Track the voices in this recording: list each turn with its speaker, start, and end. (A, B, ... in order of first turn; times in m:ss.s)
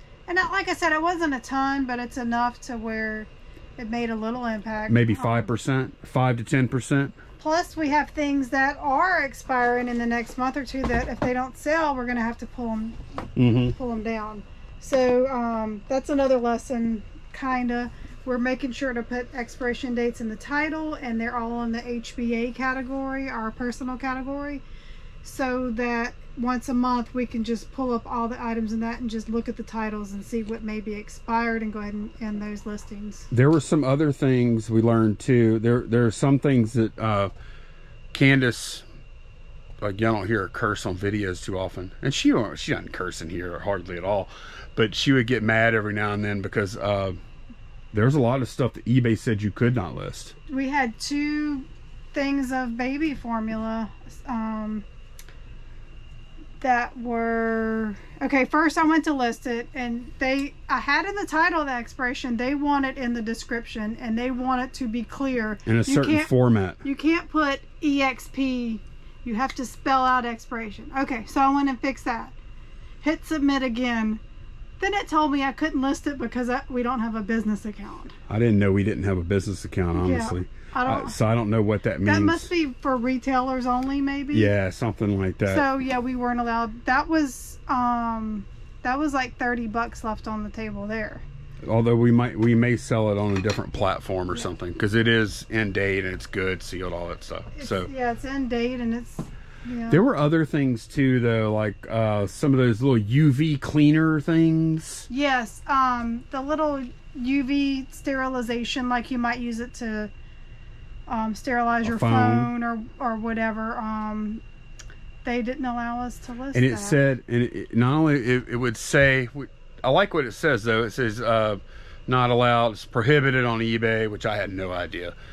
0:00.3-0:05.5 A
0:04.9-0:07.1 B
0:07.4-0:13.0 A
0:13.4-0:13.8 B
0:13.7-0:24.6 A
0:25.2-0:33.3 A
0:33.3-0:37.3 B
0:38.1-0:38.8 B
0:39.8-0:47.2 B
0:47.9-0:50.3 B
0:50.5-0:54.8 A
0:56.6-1:06.3 A
1:05.6-1:06.8 B
1:06.8-1:12.3 A
1:13.0-1:14.2 A
1:14.8-1:18.1 A
1:18.3-1:22.5 B
1:19.9-1:21.2 A
1:22.0-1:24.5 A
1:24.3-1:25.6 B
1:25.4-1:31.2 A
1:31.6-1:37.9 B
1:37.5-1:40.0 A
1:39.9-1:45.1 B
1:45.1-1:50.1 A
1:51.1-1:54.4 A
1:51.8-1:52.5 B
1:55.2-1:57.0 A
1:56.5-2:05.1 B